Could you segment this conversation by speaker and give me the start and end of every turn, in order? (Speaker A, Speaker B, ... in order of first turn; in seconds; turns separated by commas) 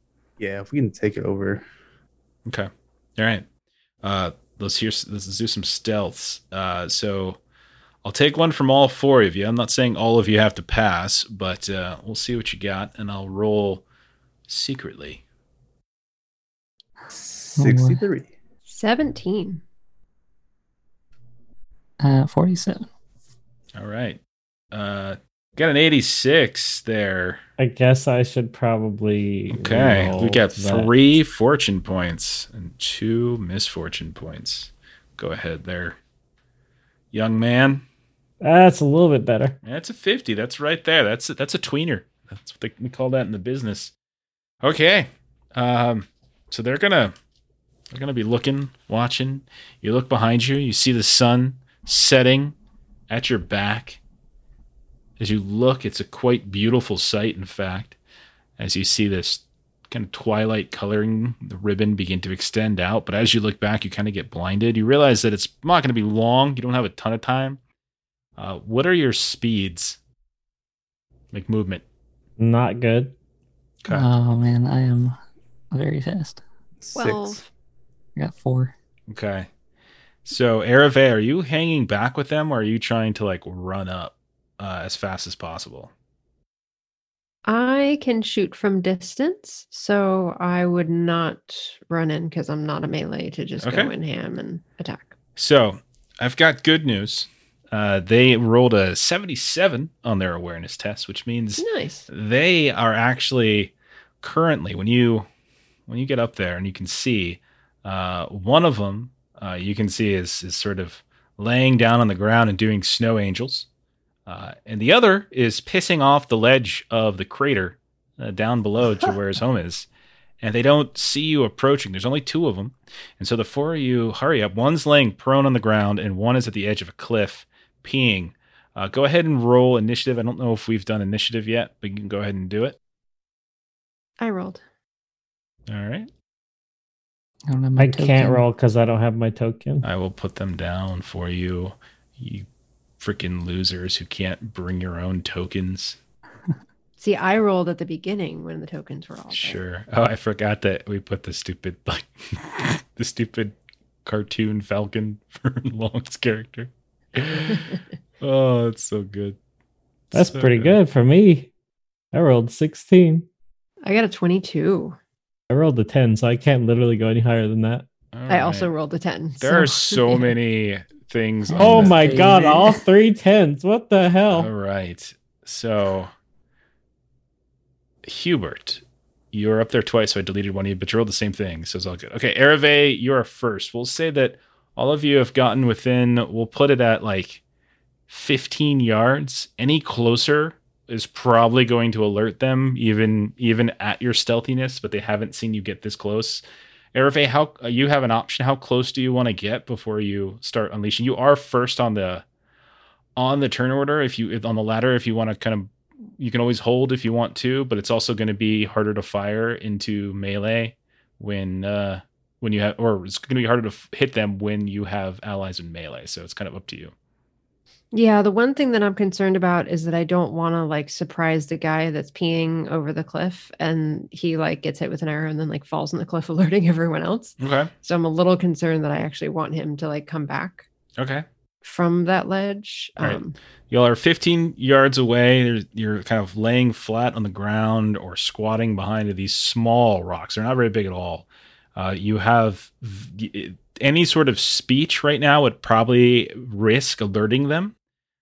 Speaker A: 0.4-1.6, Speaker B: 2.5-3.5, Speaker B: 4.0-7.4, Speaker B: 8.0-13.8, Speaker B: 14.5-15.2, Speaker A: 17.4-18.3, Speaker C: 17.6-18.1, Speaker D: 18.7-19.6, Speaker C: 22.0-22.9, Speaker B: 23.8-24.2, Speaker B: 24.7-27.4, Speaker E: 27.6-30.9, Speaker B: 29.5-36.0, Speaker B: 37.1-37.9, Speaker E: 38.4-39.6, Speaker B: 39.6-43.9, Speaker B: 44.6-47.1, Speaker B: 47.9-52.6, Speaker B: 53.1-54.0, Speaker B: 55.2-58.0, Speaker B: 58.6-67.6, Speaker B: 68.4-70.0, Speaker B: 71.3-71.8, Speaker E: 72.4-73.1, Speaker B: 73.8-74.1, Speaker C: 73.9-75.2, Speaker C: 75.7-76.4, Speaker A: 76.8-77.4, Speaker D: 77.0-77.5, Speaker C: 78.2-78.7, Speaker B: 79.1-79.5, Speaker B: 80.2-85.9, Speaker D: 87.5-95.1, Speaker B: 93.6-93.9, Speaker B: 95.4-105.3, Speaker D: 101.6-102.1, Speaker B: 105.9-113.7, Speaker B: 114.3-119.9, Speaker B: 120.4-132.8, Speaker D: 134.2-134.6, Speaker B: 135.7-136.1, Speaker C: 137.5-138.4, Speaker E: 137.8-139.8, Speaker B: 139.8-142.5, Speaker B: 143.0-146.0, Speaker D: 147.0-149.6, Speaker B: 149.3-159.4, Speaker B: 160.1-160.8, Speaker E: 160.1-161.5, Speaker E: 162.1-163.3, Speaker D: 163.8-165.0, Speaker E: 165.5-167.9, Speaker B: 168.1-168.7, Speaker D: 168.3-170.3, Speaker B: 169.4-172.5, Speaker C: 171.5-172.8, Speaker E: 171.6-174.5, Speaker B: 174.3-176.1, Speaker B: 178.0-187.4, Speaker B: 188.1-196.4, Speaker B: 196.9-202.2, Speaker B: 203.2-216.9, Speaker D: 217.9-230.7, Speaker B: 227.4-227.7, Speaker B: 231.0-231.3, Speaker D: 231.6-233.3, Speaker B: 233.0-247.7